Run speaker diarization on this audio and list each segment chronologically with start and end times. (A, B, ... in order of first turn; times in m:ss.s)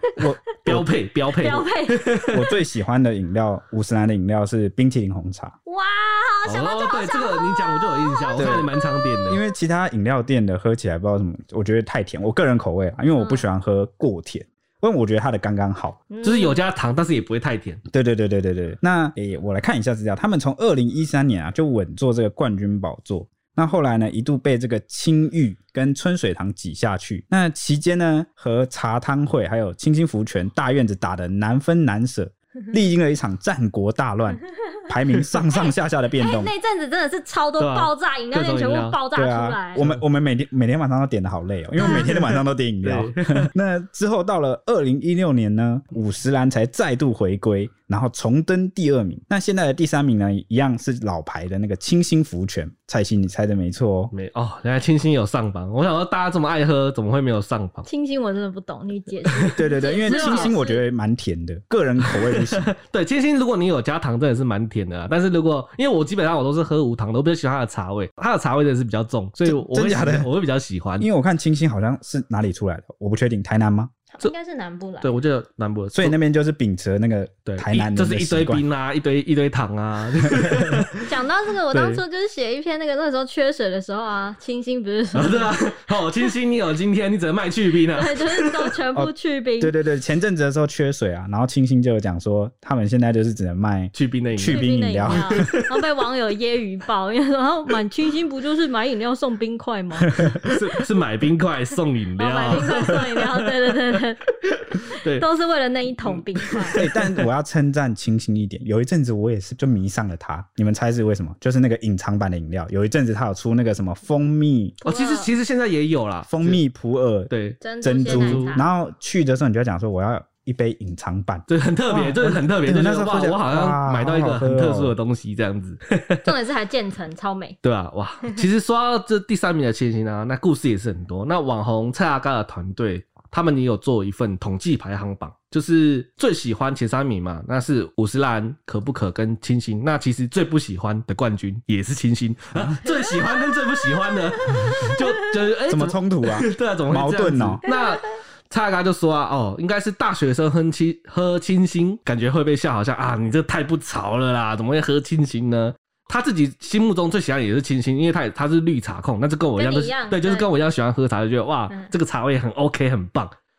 0:00.2-0:00.9 A
0:00.6-0:02.4 B
0:01.3-0:02.0 C
0:02.3-0:05.5 A
0:05.6-0:09.4 C
0:06.4-0:09.4 B
0:08.4-0:08.6 A
0:09.3-0:16.0 A
0:13.2-0:13.5 C
0:16.1-0:16.6 C
0:16.2-0:17.8 B
0:17.9-0:36.5 A
0:35.5-0:39.8 C
0:37.6-0:39.0 B
0:39.1-0:54.1 A
0:39.7-0:40.0 B
0:41.8-0:43.5 B
0:41.8-0:42.1 C
0:54.1-0:57.9 B
0:57.8-1:00.8 C
0:59.4-1:00.6 B
0:59.5-1:02.7 A
1:02.0-1:11.0 B
1:09.4-1:10.3 A
1:11.0-1:13.9 A
1:14.1-1:15.1 C
1:15.0-1:16.2 B
1:15.9-1:18.6 A
1:17.4-1:21.0 B
1:21.1-1:25.6 C
1:21.7-1:22.0 B
1:25.1-1:28.7 B
1:28.0-1:29.8 C
1:28.9-1:35.5 A
1:33.9-1:35.6 B
1:34.4-1:40.2 C
1:40.2-1:40.5 A
1:40.5-1:43.5 B
1:42.2-1:46.8 C
1:46.5-1:47.0 B
1:46.7-1:54.8 A
1:54.8-1:55.3 C
1:54.8-1:56.6 B
1:56.2-1:57.3 A
1:57.3-1:58.5 B
1:57.6-1:58.7 C
1:57.8-2:04.9 A
2:01.5-2:06.3 B
2:06.2-2:07.6 C
2:07.6-2:43.3 B
2:22.8-2:25.0 C
2:25.7-2:27.6 A
2:27.6-2:28.0 C
2:39.6-2:40.5 C